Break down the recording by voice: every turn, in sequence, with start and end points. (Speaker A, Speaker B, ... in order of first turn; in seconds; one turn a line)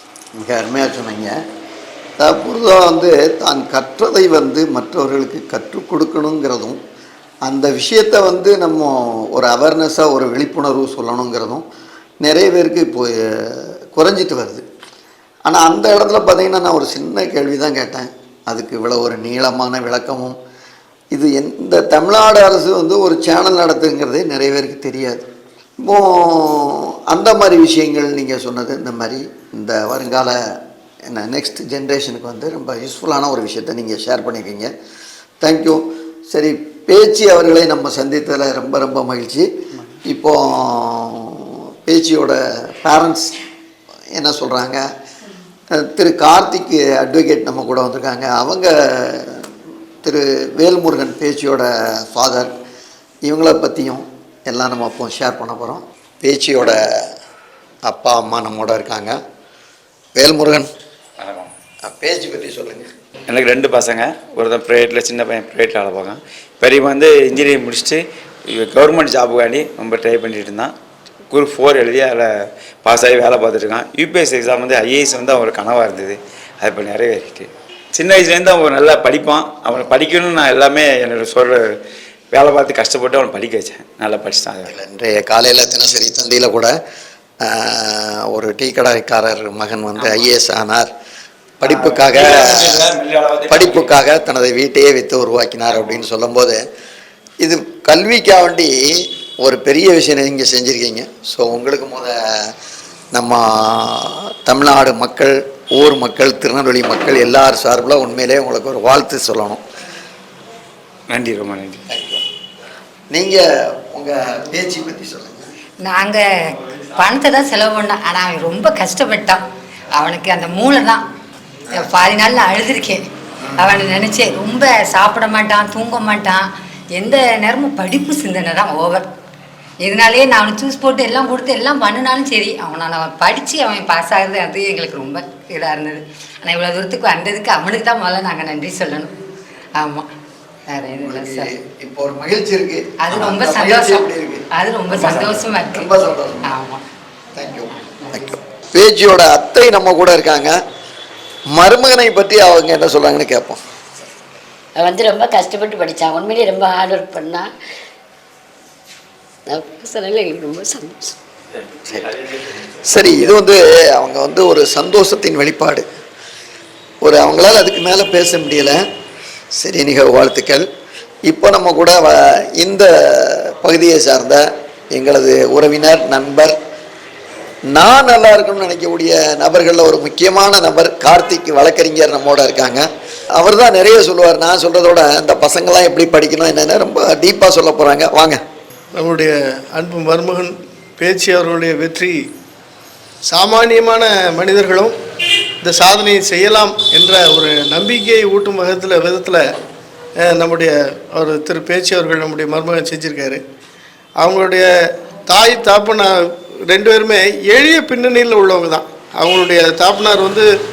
Speaker A: 0.3-1.3
Speaker A: 2.2-6.8
Speaker A: 7.5-11.6
Speaker A: 12.2-14.6
Speaker A: 15.4-20.4
Speaker A: 21.1-25.2
Speaker A: 25.8-30.6
Speaker A: 31.1-34.7
Speaker A: 35.4-39.5
Speaker A: 40.1-43.3
Speaker A: 44.1-44.8
Speaker A: 45.7-52.5
Speaker A: 53.2-56.8
Speaker A: 57.9-59.2
Speaker A: 60.1-60.7
Speaker B: 61.2-61.5
Speaker A: 61.9-62.9
Speaker B: 63.3-68.0
Speaker B: 68.5-70.7
Speaker B: 71.3-72.3
Speaker B: 72.8-81.6
Speaker B: 82.3-84.7
Speaker A: 84.7-86.7
Speaker A: 87.4-90.9
Speaker A: 91.6-93.0
Speaker B: 91.6-93.9
Speaker A: 93.5-96.6
Speaker B: 95.7-96.0
Speaker A: 97.4-102.5
Speaker A: 103.1-109.6
Speaker B: 111.1-111.8
Speaker A: 111.9-112.2
Speaker A: 113.1-115.5
Speaker C: 115.8-119.4
Speaker C: 119.9-121.0
Speaker C: 121.7-123.0
Speaker C: 123.5-129.1
Speaker C: 129.8-139.1
Speaker C: 139.8-140.1
Speaker C: 140.7-141.5
Speaker A: 141.0-146.5
Speaker C: 143.0-145.9
Speaker C: 146.5-146.8
Speaker A: 147.3-150.5
Speaker A: 151.5-153.6
Speaker D: 154.8-157.5
Speaker D: 159.5-161.2
Speaker A: 161.8-162.1
Speaker A: 162.8-165.8
Speaker A: 167.0-168.8
Speaker A: 169.6-170.6
Speaker A: 171.3-176.5
Speaker A: 177.7-182.8
Speaker A: 183.4-188.4
Speaker E: 188.9-192.2
Speaker E: 193.3-194.9
Speaker E: 195.6-199.4
Speaker E: 200.2-203.4
Speaker E: 204.2-204.7
Speaker E: 205.3-206.1
Speaker E: 206.7-210.4